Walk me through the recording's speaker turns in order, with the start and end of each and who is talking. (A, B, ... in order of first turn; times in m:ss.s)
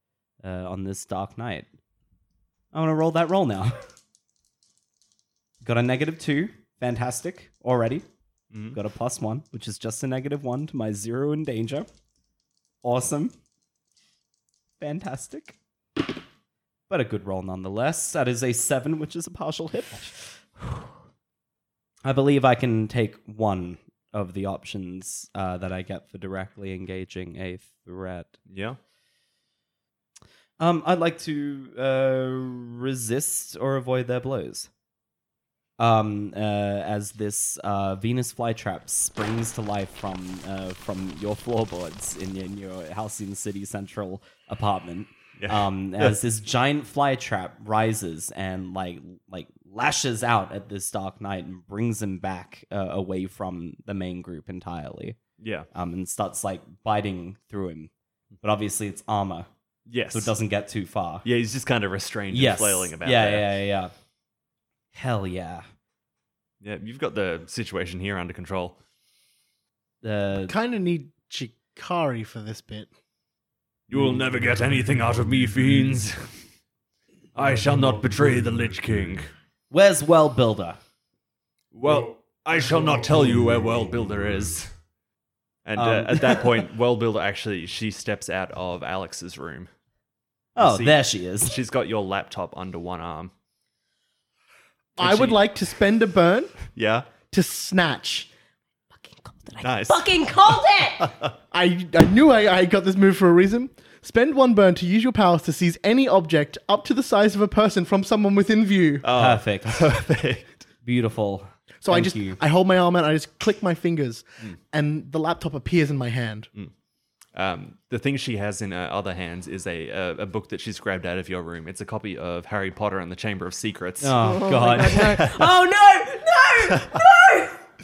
0:00.4-0:01.7 A
0:02.7-0:03.8 A
0:05.6-0:08.0 A
0:08.5-0:08.8 B
0:08.7-0:11.9 A
0:12.8-0:13.4 A
0:14.8-0:15.6 A
0:16.9-0:20.6 A
0:22.0-0:28.4 A
0:28.5-0:28.8 B
0:30.6-0:34.7 A
0:35.8-0:55.2 A
0:45.4-0:46.2 B
0:55.4-0:55.7 B
0:55.7-0:57.9 A
0:58.4-0:59.5 A
0:59.9-1:00.3 B
1:00.1-1:01.2 A
1:01.2-1:03.5 B
1:02.3-1:03.9 A
1:04.9-1:05.6 A
1:06.6-1:08.8 B
1:10.0-1:10.5 A
1:10.4-1:12.9 C
1:13.9-1:16.4 B
1:17.3-1:19.3 B
1:19.7-1:20.8 A
1:21.7-1:24.7 B
1:25.6-1:29.7 B
1:25.8-1:26.7 A
1:30.6-1:31.6 A
1:30.6-1:33.3 B
1:35.0-1:36.6 C
1:35.0-1:35.4 B
1:36.7-1:37.1 B
1:37.3-1:38.3 C
1:39.0-1:41.1 D
1:39.6-1:40.1 B
1:41.0-1:41.3 B
1:41.5-1:49.1 C
1:49.0-1:50.6 B
1:49.1-1:49.9 A
1:50.8-1:52.4 A
1:51.8-1:56.5 C
1:57.3-2:05.4 B
2:04.0-2:05.3 A
2:04.2-2:07.4 D
2:06.6-2:07.0 B